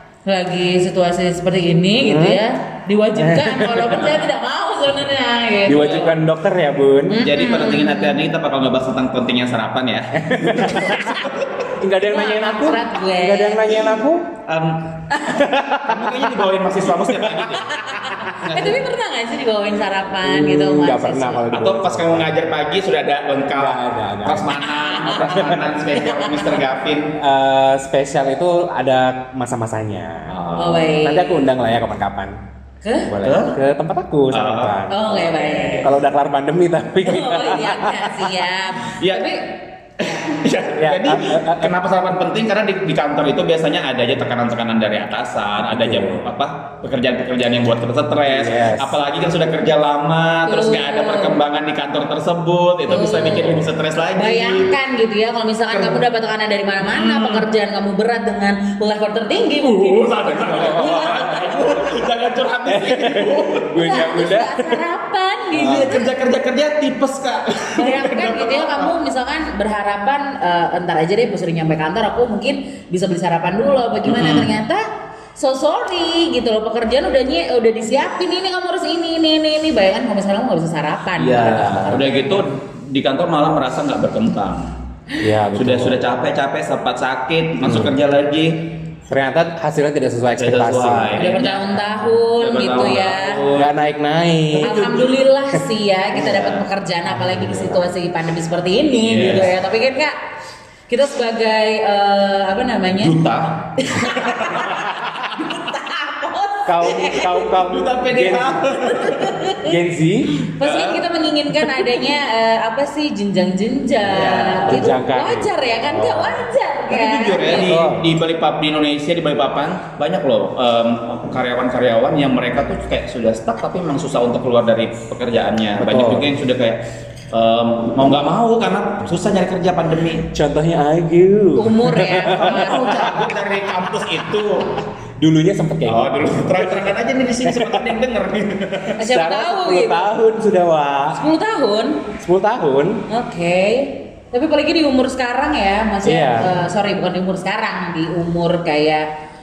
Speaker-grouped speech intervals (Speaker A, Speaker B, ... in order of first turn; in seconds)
Speaker A: 0.2-6.1, 7.1-8.2, 12.0-13.8, 17.7-21.5, 30.5-31.4, 32.8-33.1, 34.9-35.9, 37.0-40.3, 50.5-51.4, 52.9-61.6, 63.8-66.1, 67.8-82.4, 91.1-93.4, 94.6-100.2, 100.9-103.2, 103.8-107.5, 108.9-109.7, 110.6-117.8, 131.6-132.9, 139.0-140.1, 141.1-142.1, 143.1-149.1
Speaker B: 2.0-2.4, 3.1-4.1, 5.7-7.2, 10.2-14.3, 15.2-16.2, 17.2-17.5, 20.2-22.3, 23.5-24.6, 25.1-25.7, 27.2-30.4, 31.0-32.4, 33.0-38.3, 40.8-41.7, 45.6-46.3, 48.2-49.0, 60.5-61.7, 62.6-64.8, 81.6-82.0, 85.2-86.0, 87.6-87.9, 89.1-91.3, 93.5-95.0, 97.2-97.8, 99.2-99.5, 104.6-104.9, 106.7-108.8, 109.6-110.4, 114.7-116.5, 117.5-118.0, 125.8-126.3, 130.3-133.3, 135.2-136.9, 137.4-137.9, 139.0-141.2, 142.2-143.1, 146.0-146.5
Speaker C: 7.1-11.7, 14.4-15.0, 15.7-18.8, 21.5-27.1, 30.3-30.9, 33.2-33.6, 34.3-34.8, 38.9-39.3, 40.0-54.7, 55.7-56.0, 56.8-57.4, 59.6-63.9, 65.5-68.9, 74.0-74.5, 81.2-84.7, 85.5-88.8, 90.3-93.7, 94.6-95.1, 96.2-96.6, 99.0-99.5, 102.9-104.9, 107.6-109.4, 110.6-111.0, 114.0-115.0, 116.9-130.3, 132.3-134.8, 135.8-139.0